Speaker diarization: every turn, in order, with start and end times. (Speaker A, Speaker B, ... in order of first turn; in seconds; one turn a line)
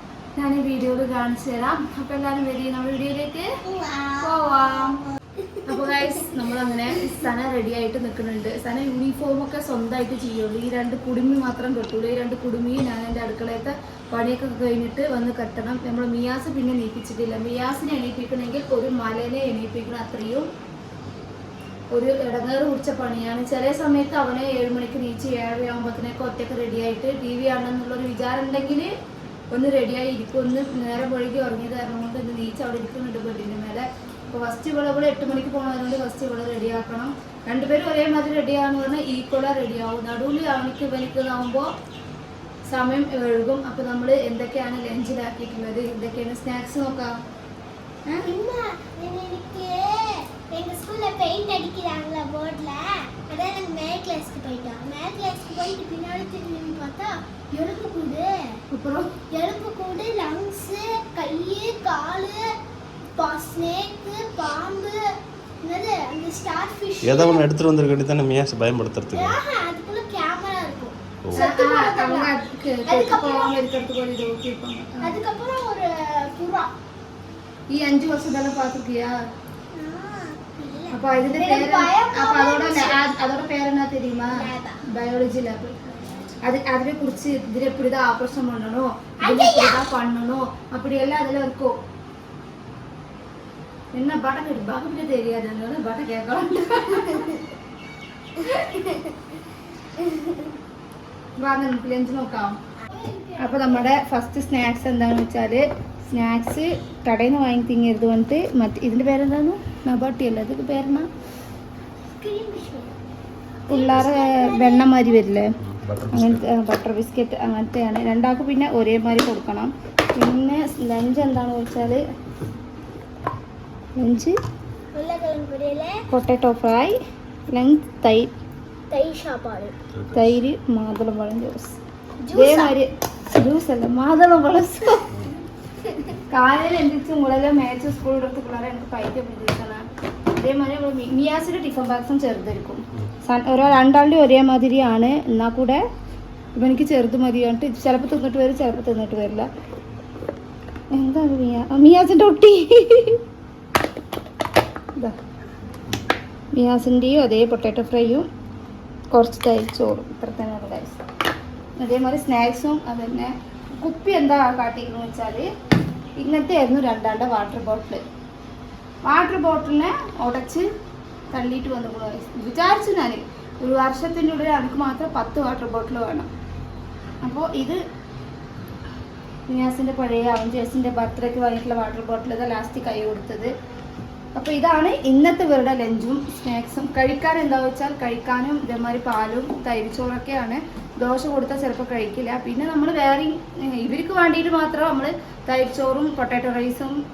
Speaker A: 0.4-3.4
Speaker B: 3.6-5.1
Speaker A: 4.2-5.0
Speaker A: 5.7-20.5
Speaker B: 5.7-6.2
Speaker A: 21.9-28.9
Speaker A: 29.5-41.7
Speaker A: 42.7-47.1
Speaker B: 48.2-58.6
Speaker A: 58.7-59.1
Speaker B: 59.3-62.4
Speaker B: 63.2-65.0
Speaker B: 65.6-67.4
Speaker C: 67.0-69.4
Speaker B: 69.1-72.3
Speaker A: 71.3-75.2
Speaker B: 72.8-73.6
Speaker B: 75.0-76.7
Speaker A: 77.7-79.1
Speaker B: 79.7-83.1
Speaker A: 80.9-85.8
Speaker B: 84.3-84.8
Speaker B: 85.9-86.4
Speaker A: 86.4-91.8
Speaker B: 89.2-89.8
Speaker A: 93.9-97.3
Speaker B: 98.7-99.1
Speaker A: 101.4-102.5
Speaker B: 102.9-103.8
Speaker A: 103.4-111.0
Speaker B: 112.1-112.9
Speaker B: 113.7-115.2
Speaker A: 113.7-115.5
Speaker C: 115.6-116.4
Speaker A: 116.1-122.0
Speaker A: 124.0-124.3
Speaker B: 124.9-126.0
Speaker A: 126.1-126.9
Speaker A: 127.5-128.3
Speaker B: 128.9-129.7
Speaker C: 129.9-130.3
Speaker A: 130.1-131.8
Speaker B: 132.2-132.7
Speaker A: 132.3-135.1
Speaker A: 136.3-139.8
Speaker A: 140.3-145.8
Speaker A: 146.6-149.5
Speaker A: 150.9-153.2
Speaker A: 156.5-158.3
Speaker A: 159.1-161.0
Speaker A: 161.8-165.5
Speaker A: 166.2-168.0
Speaker A: 169.1-170.7
Speaker A: 171.3-176.3
Speaker A: 177.2-177.8
Speaker A: 179.5-183.5
Speaker A: 184.3-196.9